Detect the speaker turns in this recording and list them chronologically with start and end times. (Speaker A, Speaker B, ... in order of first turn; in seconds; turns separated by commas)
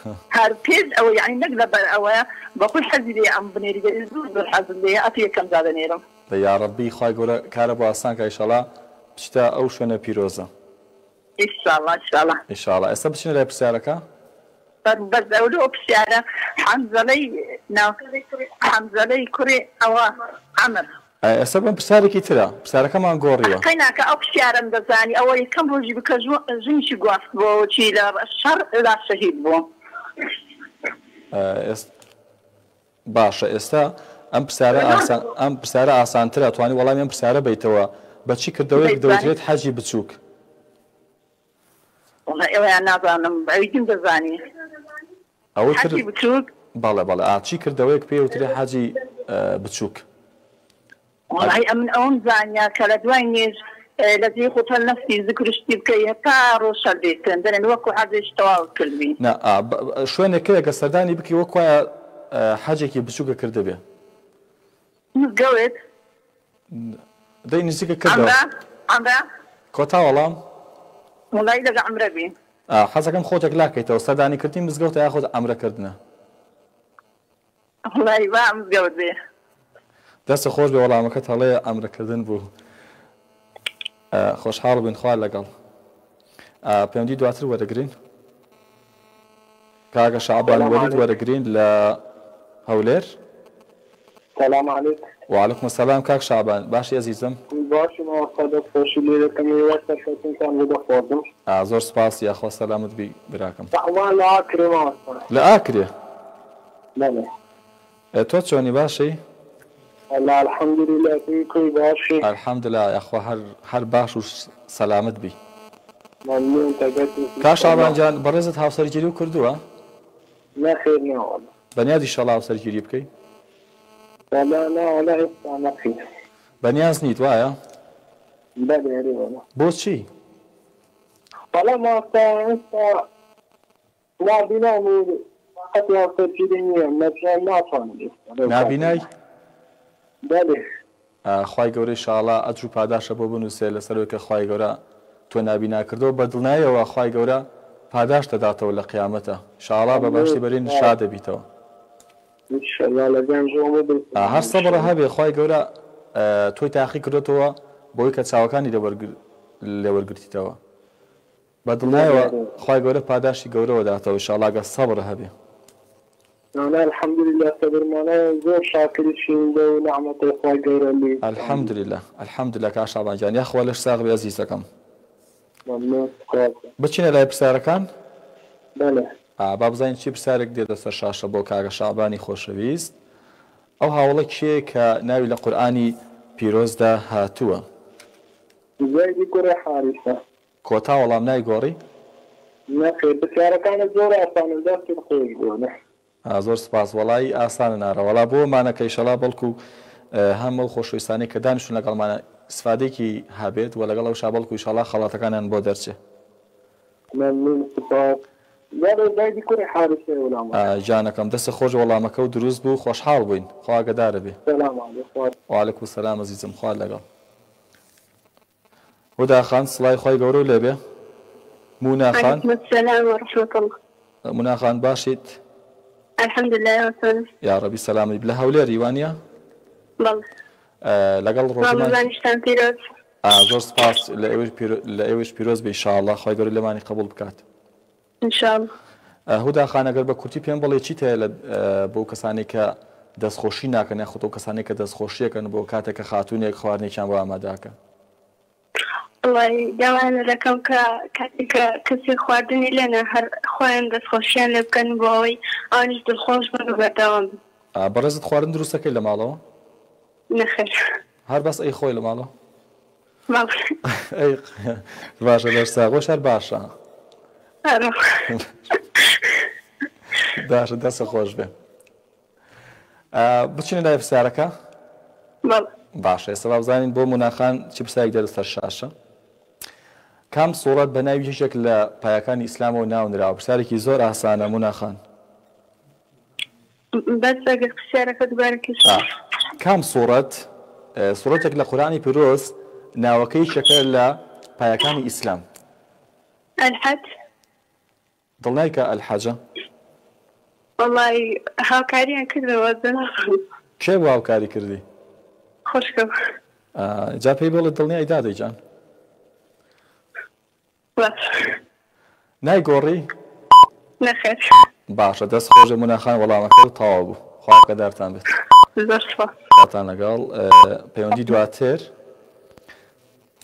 Speaker A: 0.3-6.0, Speaker B: 6.3-10.5, Speaker A: 11.4-12.4, Speaker B: 12.5-14.1, Speaker A: 14.8-18.0, Speaker A: 18.6-20.9, Speaker B: 21.2-23.6, Speaker A: 23.4-29.6, Speaker B: 31.3-31.9, Speaker B: 33.0-40.2, Speaker A: 38.8-39.3, Speaker A: 42.3-44.4, Speaker B: 45.5-46.0, Speaker A: 45.7-46.5, Speaker B: 46.7-50.0, Speaker A: 51.3-59.2, Speaker B: 59.2-63.8, Speaker A: 65.1-65.8, Speaker B: 66.7-68.4, Speaker A: 68.1-69.2, Speaker B: 69.7-70.4, Speaker A: 71.3-72.3, Speaker B: 72.7-76.0, Speaker A: 77.9-79.1, Speaker B: 80.3-82.5, Speaker B: 84.1-85.5, Speaker B: 86.6-87.9, Speaker B: 89.9-92.0, Speaker C: 90.5-91.0, Speaker B: 92.7-93.2, Speaker C: 94.3-95.0, Speaker B: 95.3-97.4, Speaker C: 97.5-101.3, Speaker B: 101.5-103.7, Speaker C: 103.7-105.2, Speaker B: 105.3-105.9, Speaker C: 107.0-107.3, Speaker B: 108.1-109.2, Speaker C: 110.1-112.2, Speaker B: 112.2-115.4, Speaker C: 116.2-118.0, Speaker B: 117.4-119.6, Speaker C: 120.6-121.5, Speaker B: 121.7-123.1, Speaker C: 124.3-126.0, Speaker B: 126.6-127.6, Speaker C: 128.6-129.4, Speaker B: 129.6-130.1, Speaker C: 131.5-133.0, Speaker C: 134.2-139.1, Speaker B: 138.4-139.0, Speaker C: 140.2-140.6, Speaker B: 141.2-144.8, Speaker B: 145.3-151.4, Speaker C: 149.9-150.9, Speaker C: 152.5-154.9, Speaker B: 154.1-160.6, Speaker B: 161.7-165.3, Speaker C: 161.8-162.5, Speaker C: 166.5-171.7, Speaker B: 171.2-174.7, Speaker C: 175.7-176.7, Speaker B: 176.8-177.9, Speaker C: 178.8-179.1, Speaker B: 179.4-182.9, Speaker B: 183.8-187.6, Speaker C: 188.8-190.2, Speaker B: 190.6-191.8, Speaker C: 192.7-195.7, Speaker B: 196.2-199.6, Speaker B: 200.1-206.0, Speaker C: 207.1-208.2, Speaker C: 208.8-210.6, Speaker B: 210.5-214.4, Speaker C: 214.4-215.4, Speaker B: 215.5-217.0, Speaker B: 219.2-220.8, Speaker B: 221.8-222.4, Speaker D: 222.1-223.7, Speaker B: 224.3-225.4, Speaker D: 226.2-227.3, Speaker B: 227.4-229.2, Speaker D: 230.0-230.2, Speaker B: 230.8-232.0, Speaker D: 231.6-232.8, Speaker B: 233.2-237.4, Speaker D: 238.2-238.7, Speaker B: 239.3-247.8, Speaker D: 249.2-257.4, Speaker B: 257.7-259.4, Speaker D: 260.3-260.8, Speaker B: 261.3-262.3, Speaker D: 263.3-263.7, Speaker B: 263.9-266.7, Speaker D: 267.6-268.3, Speaker B: 270.3-271.5, Speaker B: 273.1-274.5, Speaker B: 275.9-278.9, Speaker B: 280.3-285.0, Speaker D: 287.0-289.0, Speaker B: 289.6-295.4, Speaker D: 296.6-297.1, Speaker B: 298.4-299.4, Speaker D: 300.8-303.4, Speaker B: 303.8-304.8, Speaker D: 305.7-306.1, Speaker B: 306.7-308.6, Speaker D: 311.0-311.6, Speaker B: 312.4-313.1, Speaker D: 314.0-314.6, Speaker B: 314.9-318.2, Speaker D: 318.8-319.4, Speaker B: 319.5-321.9